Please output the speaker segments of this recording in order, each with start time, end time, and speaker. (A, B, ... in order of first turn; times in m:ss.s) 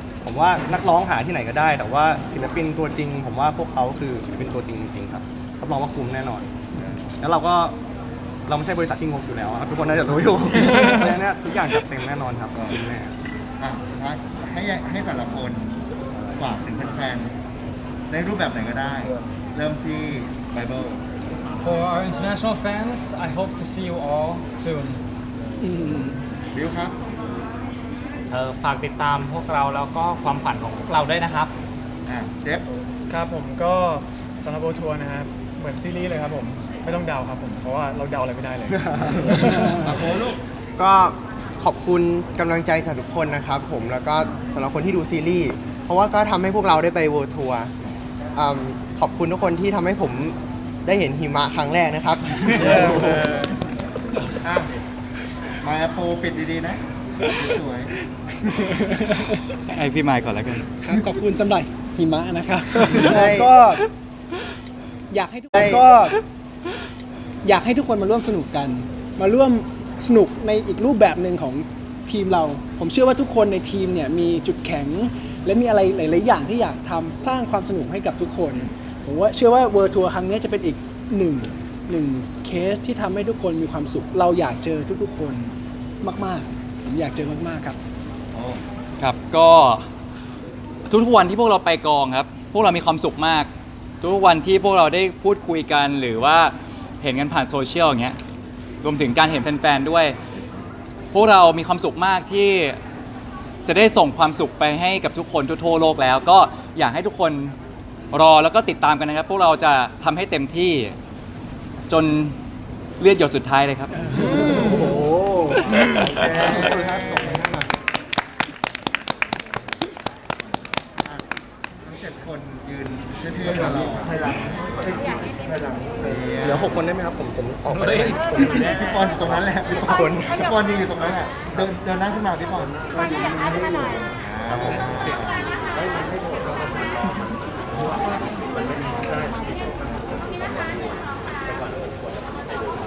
0:00.2-0:06.5 A
0:07.2-0:07.8 A
0:08.5-0:13.1 A
0:13.6-0:17.4 B
0:18.1-0:21.0 B
0:21.6-0:25.0 C
0:25.6-0:26.2 D
0:26.5-0:27.0 B
0:28.3-0:31.5 E
0:32.1-0:32.7 B
0:33.1-0:40.1 F
0:39.7-0:40.4 B
0:40.8-0:47.7 G
0:48.4-0:52.9 G
0:52.8-0:53.4 F
0:54.4-0:54.7 B
0:55.6-0:57.9 B
0:58.8-0:59.2 D
0:59.7-1:00.9 H
1:00.9-1:03.9 D
1:03.1-1:03.6 G
1:05.1-1:06.2 D
1:05.5-1:05.9 G
1:07.4-1:27.8 D
1:28.3-1:28.6 B
1:29.0-1:29.9 H
1:30.9-1:33.5 H
1:34.0-1:38.2 H
1:38.8-1:40.2 H
1:41.1-1:42.8 H
1:43.7-1:47.6 H
1:48.1-1:51.0 H
1:51.9-1:52.4 H
1:53.0-1:54.0 H
1:54.1-1:57.7 A
1:54.4-1:54.9 B
1:55.8-1:57.5 B
2:00.5-2:01.3 B
2:01.8-2:06.8 B
2:06.4-2:09.4 A
2:08.5-2:12.8 B
2:09.8-2:10.5 G
2:14.2-2:16.4 B
2:17.7-2:20.4 B